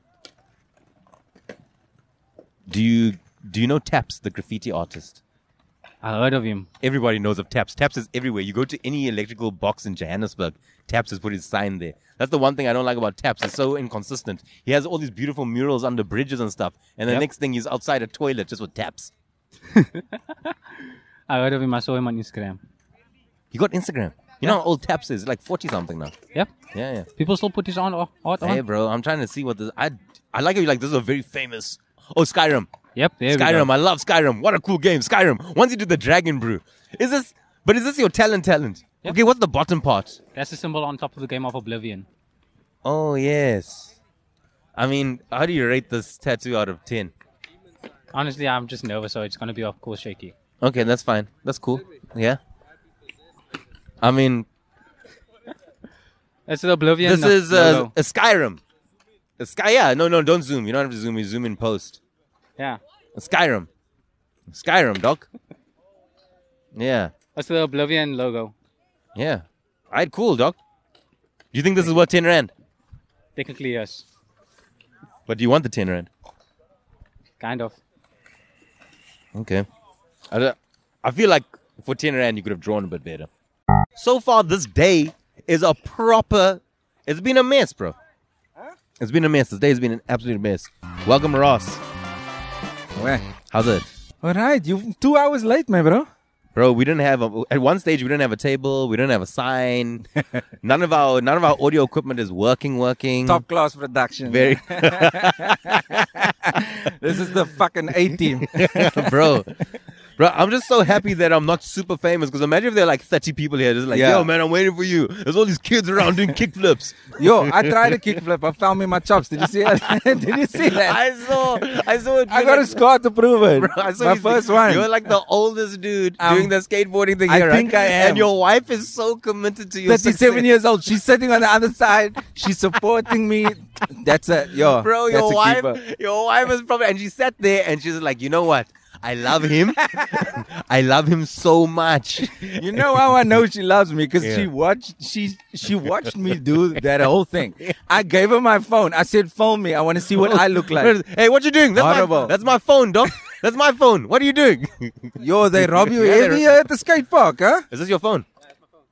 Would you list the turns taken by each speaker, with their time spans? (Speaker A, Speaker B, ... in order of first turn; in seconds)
Speaker A: 2.7-5.2, 6.8-19.1, 23.5-26.2, 26.7-27.1, 28.4-32.7, 33.3-40.2, 42.8-43.9, 44.8-47.1, 50.6-52.4, 54.0-54.5, 57.0-58.6, 59.4-62.0, 63.1-63.7, 64.5-65.3, 66.8-67.1, 69.2-70.6, 71.5-72.5, 75.3-76.1, 79.3-79.7, 80.3-83.3, 84.0-88.0, 89.0-91.8, 93.5-93.9, 96.5-100.0, 100.6-103.4, 104.3-106.3, 108.2-109.6, 110.2-118.2, 119.6-120.0, 120.6-122.8, 123.6-130.5, 134.7-143.0, 144.2-144.5, 150.1-156.4, 157.7-158.3
Speaker B: 6.0-6.7, 19.7-20.6, 21.3-22.6, 26.3-26.6, 27.2-28.6, 32.9-33.7, 40.3-42.1, 48.1-50.3, 56.5-57.9, 67.3-68.5, 73.3-74.0, 77.4-77.8
Speaker C: 93.0-93.2, 94.2-96.1, 103.2-109.4, 113.9-114.3, 117.2-121.6, 122.3-124.9, 126.2-126.5, 127.3-128.3, 129.9-135.8, 139.9-140.3, 142.5-150.9, 151.8-152.4, 155.2-157.7